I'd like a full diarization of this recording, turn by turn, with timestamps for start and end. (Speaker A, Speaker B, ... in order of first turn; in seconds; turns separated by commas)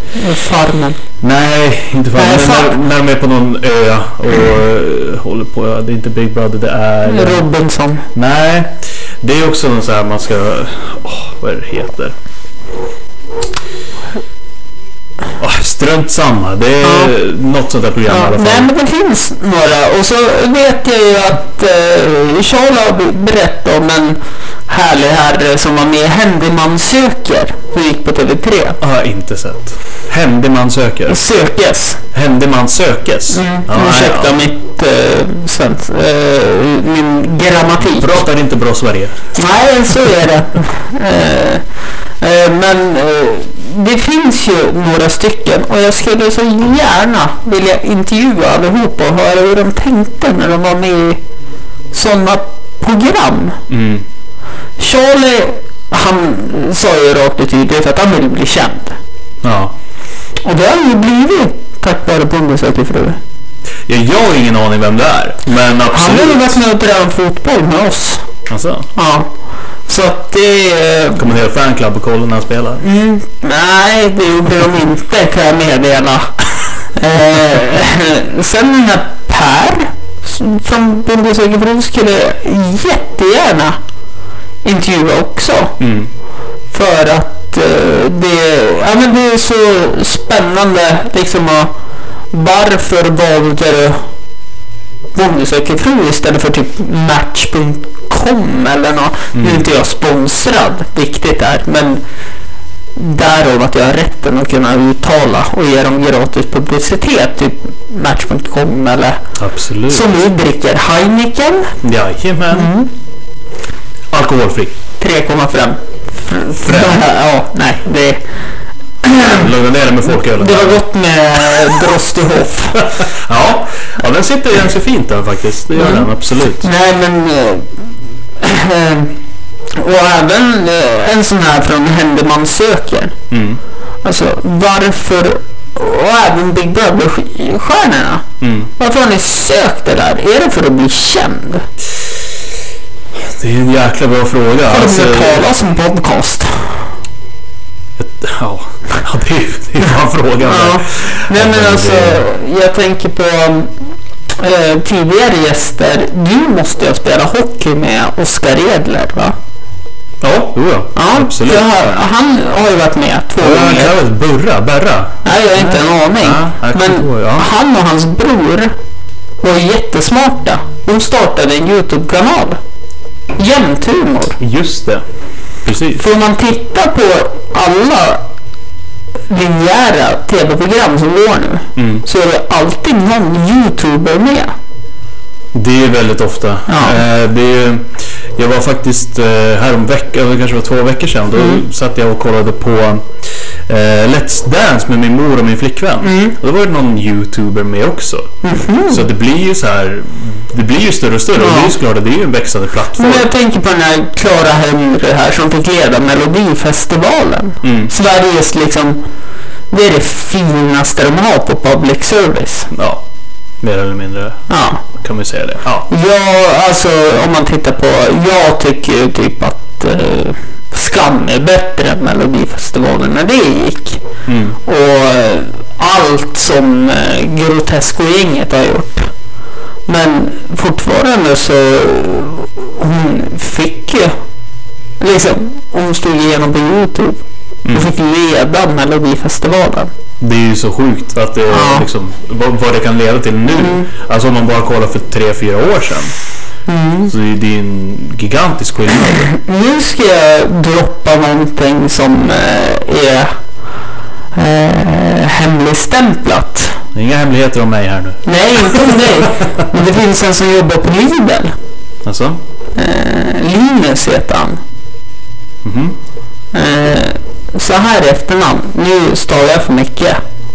Speaker A: 0.1-1.0, Speaker B: 1.2-7.5, Speaker A: 2.1-2.8, Speaker A: 7.0-8.1, Speaker B: 8.1-12.1, Speaker B: 15.4-18.7, Speaker A: 16.8-17.1, Speaker A: 18.1-28.8, Speaker B: 28.8-31.2, Speaker A: 31.1-32.0, Speaker B: 32.1-34.4, Speaker A: 33.3-38.2, Speaker B: 37.8-39.2, Speaker A: 39.3-41.6, Speaker A: 42.2-51.2, Speaker A: 51.9-53.6, Speaker B: 53.7-54.0, Speaker A: 54.8-59.0, Speaker B: 59.4-59.7, Speaker A: 60.4-63.2, Speaker B: 63.9-66.5, Speaker A: 65.9-68.2, Speaker B: 68.5-68.9, Speaker A: 68.9-69.3, Speaker A: 69.9-71.2, Speaker B: 71.2-72.8, Speaker A: 72.8-76.3, Speaker A: 76.9-83.8, Speaker A: 84.6-85.8, Speaker B: 85.8-86.1, Speaker A: 86.7-91.7, Speaker A: 92.3-94.0, Speaker A: 95.1-102.0, Speaker B: 99.3-99.7, Speaker A: 102.9-109.2, Speaker B: 109.4-110.1, Speaker A: 109.9-111.7, Speaker B: 111.8-112.7, Speaker A: 112.5-112.9, Speaker B: 114.1-114.7, Speaker A: 115.0-118.2, Speaker B: 116.6-117.0, Speaker A: 119.0-119.5, Speaker B: 119.2-120.8, Speaker A: 120.3-122.9, Speaker B: 122.8-126.7, Speaker A: 125.8-126.1, Speaker A: 126.6-127.8, Speaker A: 128.4-129.2, Speaker A: 129.8-133.1, Speaker B: 133.3-133.6, Speaker A: 134.0-138.2, Speaker B: 138.4-138.7, Speaker A: 138.8-141.7, Speaker B: 143.2-145.5, Speaker A: 144.7-146.9, Speaker B: 148.0-152.2, Speaker A: 150.4-153.7, Speaker A: 154.3-159.3, Speaker B: 160.2-161.7, Speaker A: 160.9-163.9, Speaker B: 163.4-167.5, Speaker A: 165.2-168.8, Speaker A: 169.4-172.6, Speaker A: 173.4-174.4, Speaker B: 174.4-175.0, Speaker B: 175.6-176.0, Speaker A: 176.0-178.2, Speaker A: 179.3-184.5, Speaker B: 181.8-182.0, Speaker B: 185.5-193.1, Speaker A: 186.7-187.0, Speaker A: 191.3-191.6, Speaker B: 193.7-198.3, Speaker A: 196.0-196.3, Speaker A: 198.4-199.1, Speaker B: 198.9-203.3, Speaker A: 201.4-201.7, Speaker A: 202.9-209.0, Speaker B: 207.6-207.9, Speaker A: 209.7-212.7, Speaker B: 212.7-213.0, Speaker B: 213.6-215.9, Speaker A: 214.5-214.8, Speaker A: 215.9-224.0, Speaker B: 224.3-224.6, Speaker A: 224.7-229.1, Speaker A: 229.9-234.2, Speaker A: 235.0-239.9, Speaker B: 237.6-237.9, Speaker B: 240.2-246.1, Speaker A: 241.5-241.8, Speaker A: 243.5-243.9, Speaker A: 246.7-247.1, Speaker B: 247.1-249.3, Speaker A: 249.2-253.3, Speaker A: 254.3-256.8, Speaker B: 256.9-259.1, Speaker A: 258.2-261.6, Speaker B: 262.0-262.4, Speaker A: 262.8-264.6, Speaker B: 265.6-265.9, Speaker A: 266.5-270.2